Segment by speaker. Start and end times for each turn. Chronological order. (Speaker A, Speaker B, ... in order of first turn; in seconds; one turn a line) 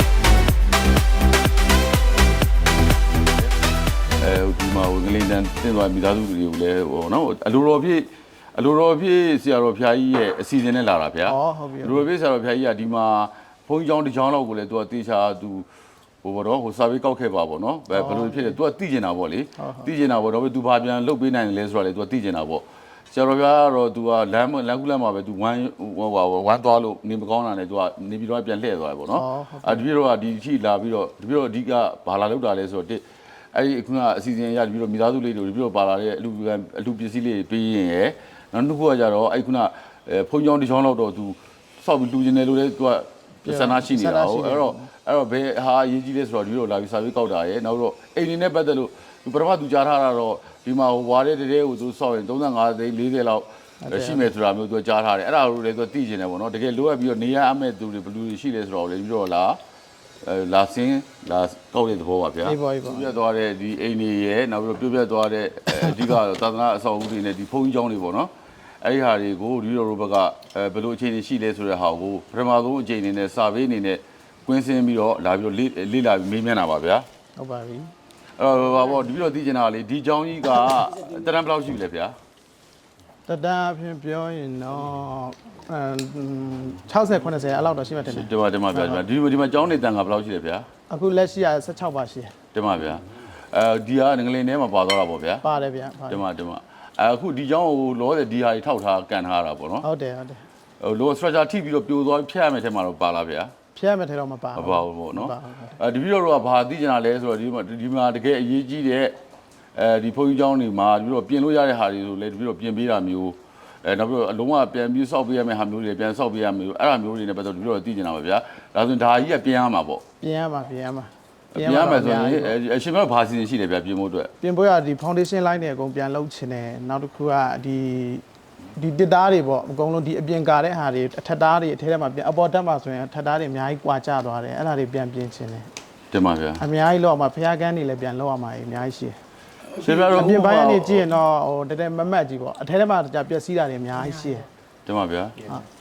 Speaker A: 4.2-15.7
Speaker B: 11.2-12.1
Speaker A: 16.2-33.0
Speaker B: 17.9-18.6
Speaker B: 19.6-19.9
Speaker B: 29.1-29.9
Speaker A: 33.5-59.6
Speaker B: 43.5-44.9
Speaker B: 53.8-54.3
Speaker A: 60.2-68.3
Speaker B: 62.4-63.1
Speaker A: 68.8-77.0
Speaker B: 77.4-77.9
Speaker A: 78.4-82.1
Speaker B: 83.2-89.0
Speaker A: 88.0-90.7
Speaker B: 90.9-92.3
Speaker A: 92.5-95.4
Speaker B: 95.4-96.2
Speaker A: 96.1-99.8
Speaker B: 99.8-100.4
Speaker A: 100.8-103.5
Speaker B: 103.7-105.8
Speaker A: 104.5-109.1
Speaker A: 109.7-120.0
Speaker B: 120.2-122.5
Speaker A: 121.5-124.3
Speaker B: 124.4-128.2
Speaker B: 128.8-135.7
Speaker A: 136.1-136.6
Speaker B: 136.6-139.2
Speaker A: 139.7-141.1
Speaker B: 139.8-144.5
Speaker A: 144.8-145.4